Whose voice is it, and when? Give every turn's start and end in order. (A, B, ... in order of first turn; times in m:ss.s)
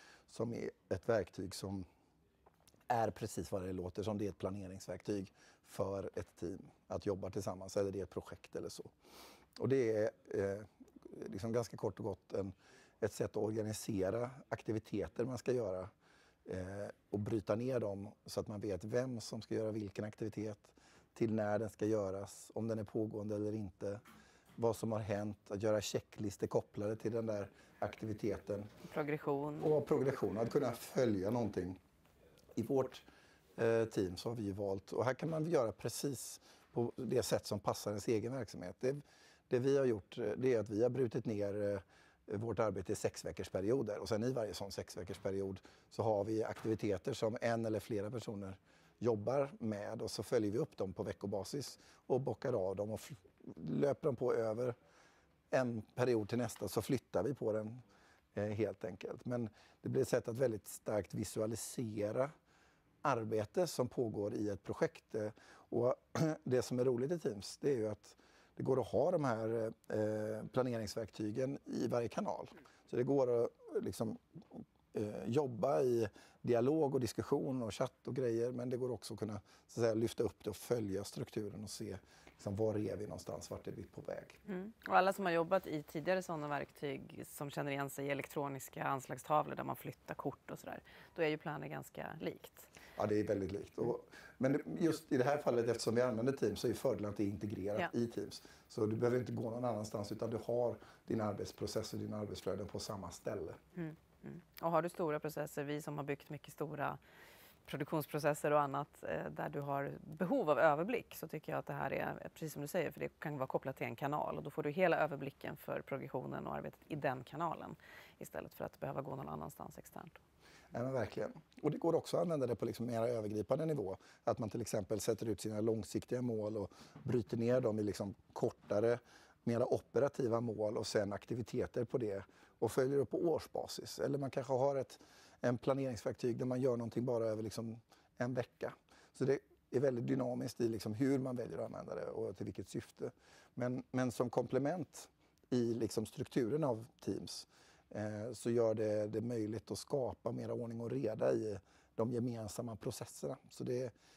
0:00.3-0:01.8 A
0:02.9-0:08.9 A
0:09.6-0:15.9 A
0:16.4-0:24.0 A
0:24.6-0:28.7 A
0:28.9-0:29.7 B
0:29.6-0:31.8 A
0:32.6-0:33.0 A
0:33.6-0:54.7 A
0:55.5-0:57.8 A
0:58.3-1:02.3 A
1:03.0-1:24.4 A
1:24.4-1:32.7 B
1:33.0-1:43.6 A
1:43.8-1:47.0 B
1:47.6-2:00.2 B
2:00.7-2:33.9 A